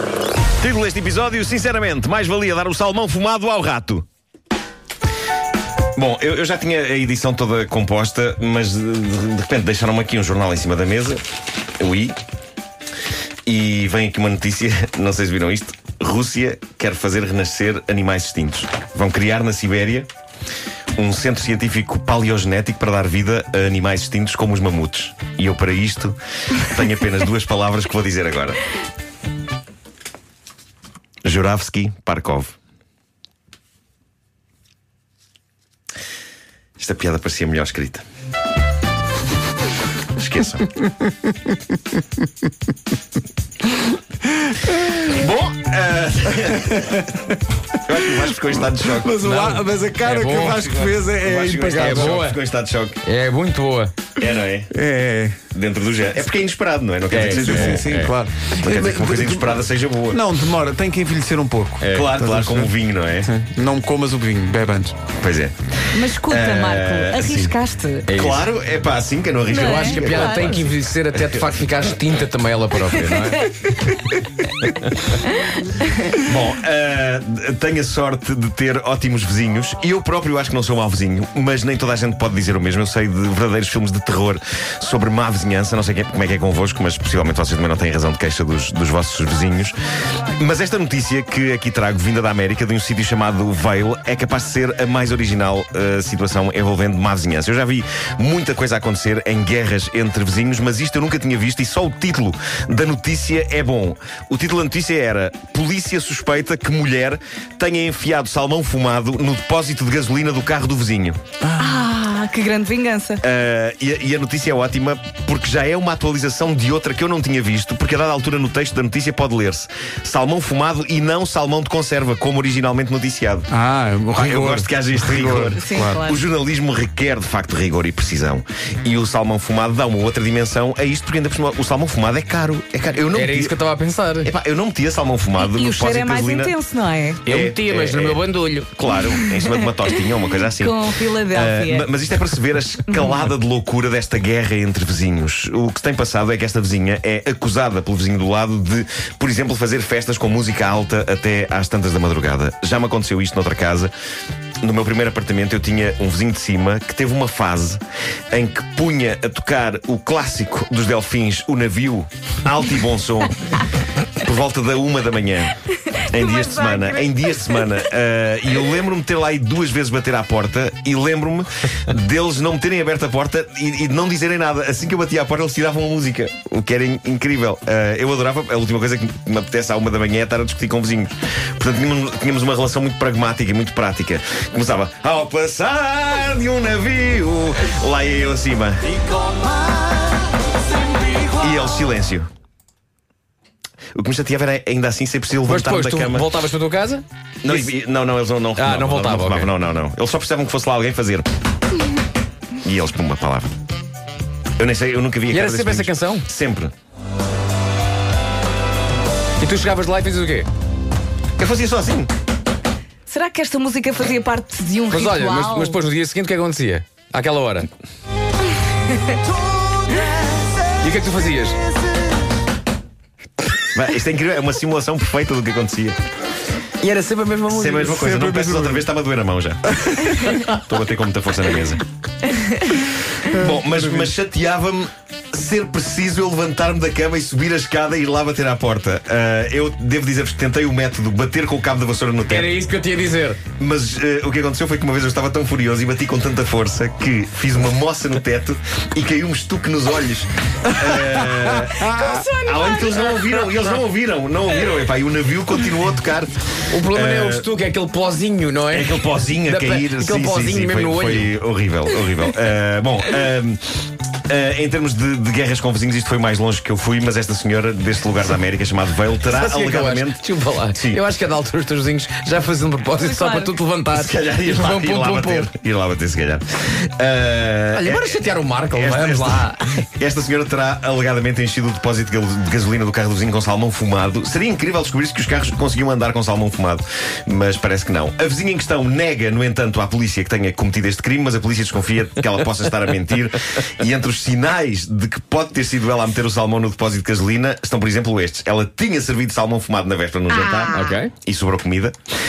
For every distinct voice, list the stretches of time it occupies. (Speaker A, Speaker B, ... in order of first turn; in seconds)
Speaker A: 0.6-4.0, 6.0-11.2, 11.8-12.2, 13.5-20.1, 20.9-28.6, 31.2-32.5, 36.8-38.0, 40.2-40.7, 45.5-47.2, 47.8-49.2, 51.2-53.0, 54.2-54.7, 55.5-57.9, 58.5-60.2, 61.9-63.3, 65.2-65.6, 66.1-67.5, 68.1-71.4, 76.1-89.7, 90.4-111.2, 113.2-123.5, 124.1-133.6, 134.2-136.6, 137.3-153.9, 154.6-163.7, 164.2-165.6, 166.1-188.9, 191.4-192.3, 193.9-196.3, 197.4-201.3, 202.6-203.5, 204.6-206.7, 211.4-212.1, 223.7-226.0, 227.5-229.6, 230.4-231.8, 233.2-242.5, 243.6-256.3, 256.9-257.5, 258.7-271.0, 273.9-278.2, 278.7-301.9
Speaker B: 41.0-41.5, 44.5-45.0, 48.0-48.4, 48.9-52.2, 54.7-55.4, 57.2-59.5, 60.1-62.7, 63.2-65.0, 123.5-126.0, 228.0-228.9, 229.7-230.3, 233.3-234.1
Speaker C: 45.0-45.5, 49.2-52.4, 53.0-53.9, 57.1-58.1, 61.8-62.1, 68.1-68.4, 69.6-73.5, 133.1-134.3, 137.2-138.9, 195.4-197.7, 198.6-199.5, 205.3-206.3, 209.4-210.5, 214.9-217.7, 220.8-221.6, 226.8-228.1, 242.3-243.4, 256.7-261.3, 269.2-275.5, 277.7-279.6, 300.7-301.1
Speaker D: 65.9-68.0, 69.5-70.7, 73.2-74.0, 75.3-76.1, 111.5-113.2, 125.6-126.2, 135.4-137.2, 139.0-139.6, 140.6-141.9, 166.0-167.8, 213.1-215.8, 218.9-219.2, 251.8-253.7, 273.0-273.5, 300.4-300.9